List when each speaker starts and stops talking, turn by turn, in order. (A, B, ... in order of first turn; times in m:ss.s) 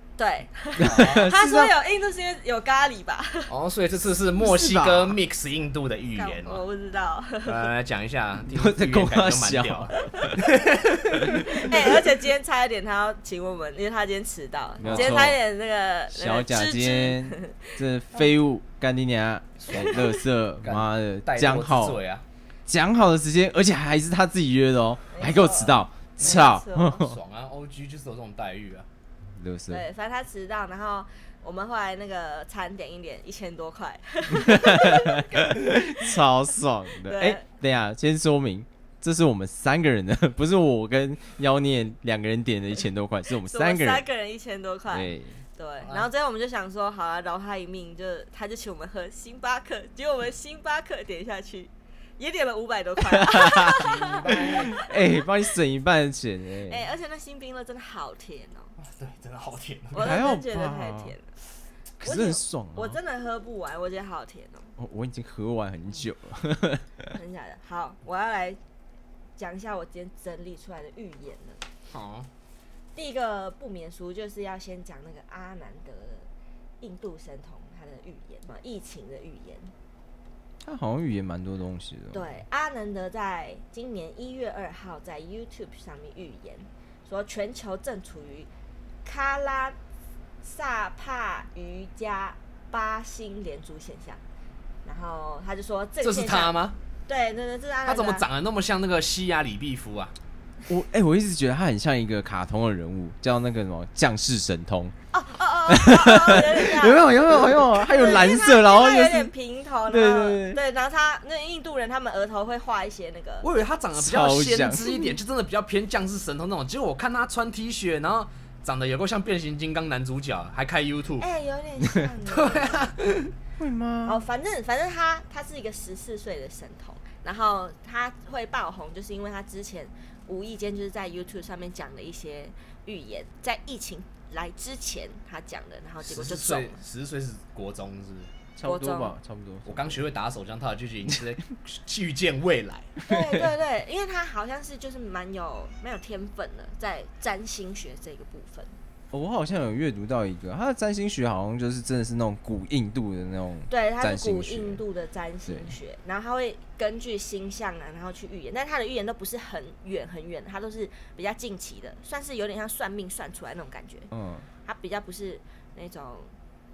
0:00.2-0:03.5 A
0:00.8-0:01.7 B
0:00.8-0:01.3 C
0:03.5-0:06.6 C
0:04.4-0:05.2 B
0:06.1-0:07.7 A
0:07.4-0:11.3 C
0:08.4-0:10.4 B
0:11.3-0:18.2 A
0:14.8-0:15.4 B
0:14.8-0:15.2 C
0:16.1-0:22.0 B
0:19.7-0:20.1 A
0:20.6-0:22.2 C
0:22.7-0:27.2 B
0:25.1-0:27.1 A
0:26.2-0:26.5 C
0:27.0-0:28.8 C
0:29.4-0:29.8 B
0:29.7-0:35.8 A
0:34.3-0:44.0 B
0:37.0-0:37.4 A
0:43.3-0:55.4 A
0:44.9-0:45.4 B
0:45.8-0:46.1 C
0:53.0-0:56.8 B
0:53.7-0:54.8 C
0:56.6-0:58.7 A
0:58.8-1:00.2 C
0:59.9-1:01.3 A
1:00.0-1:01.1 B
1:02.0-1:03.0 B
1:02.0-1:04.7 A
1:04.8-1:07.1 B
1:07.1-1:08.6 A
1:09.4-1:11.6 A
1:11.9-1:12.3 C
1:12.9-1:16.3 A
1:16.8-1:19.7 A
1:20.6-1:22.3 B
1:22.1-1:28.5 A
1:29.0-1:29.8 A
1:30.4-1:34.2 A
1:34.8-1:36.5 A
1:36.0-1:36.8 C
1:37.1-1:38.2 A
1:37.8-1:40.1 C
1:40.7-1:44.9 B
1:45.1-1:47.0 A
1:45.7-1:49.3 B
1:47.7-1:53.5 A
1:49.8-1:50.6 B
1:53.4-2:01.3 C
1:53.9-1:55.0 B
2:01.2-2:02.9 A
2:02.2-2:03.3 C
2:03.6-2:04.2 B
2:04.0-2:16.8 A
2:16.0-2:18.3 C
2:18.5-2:20.0 B
2:18.6-2:19.1 A
2:19.7-2:23.0 C
2:23.0-2:23.5 B
2:23.0-2:28.7 A
2:29.1-2:34.8 B
2:33.7-2:44.1 A
2:35.4-2:35.7 B
2:44.1-2:44.5 B
2:44.6-2:46.3 A